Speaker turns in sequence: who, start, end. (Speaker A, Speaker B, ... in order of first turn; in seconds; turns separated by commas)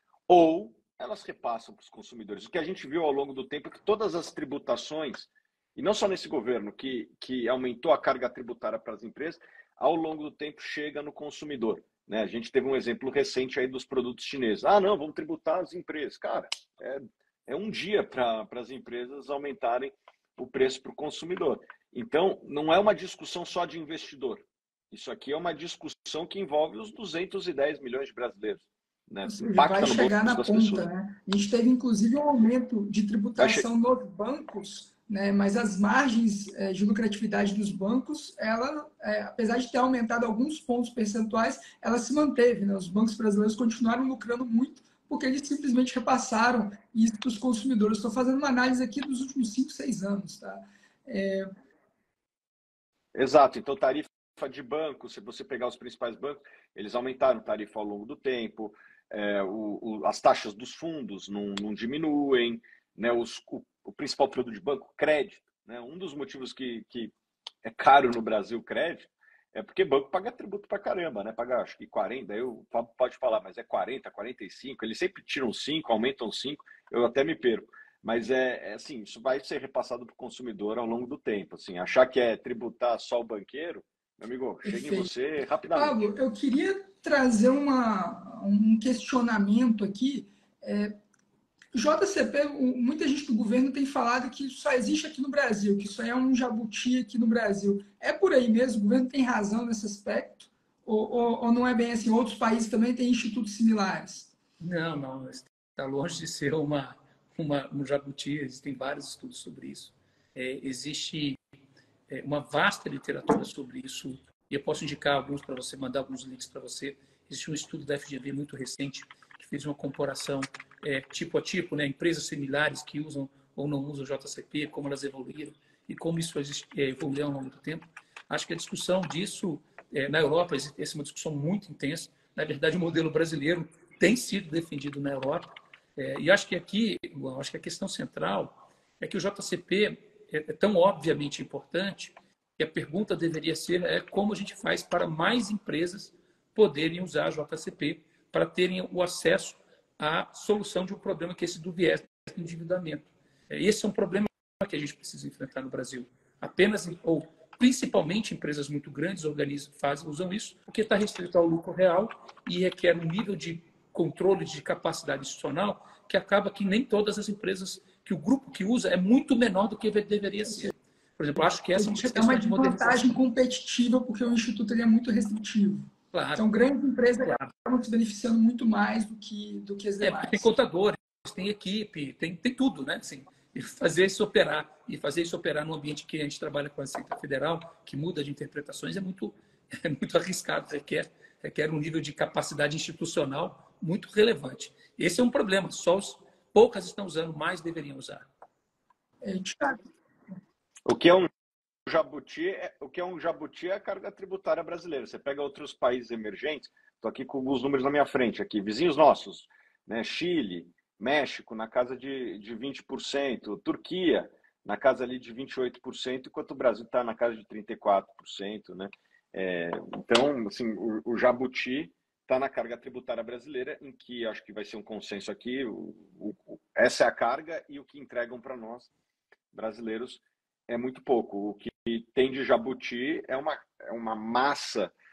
Speaker A: 0.3-30.9, Speaker B: 29.2-51.5, Speaker A: 33.4-33.6, Speaker A: 53.1-67.1, Speaker A: 67.6-86.0, Speaker B: 84.6-85.1, Speaker B: 85.7-90.9, Speaker B: 91.7-104.3, Speaker C: 104.6-111.4, Speaker C: 112.1-173.2, Speaker B: 171.7-180.5, Speaker C: 176.1-176.4, Speaker C: 180.0-198.3, Speaker B: 199.2-199.8, Speaker A: 200.9-201.3, Speaker A: 201.9-228.9, Speaker A: 229.5-234.9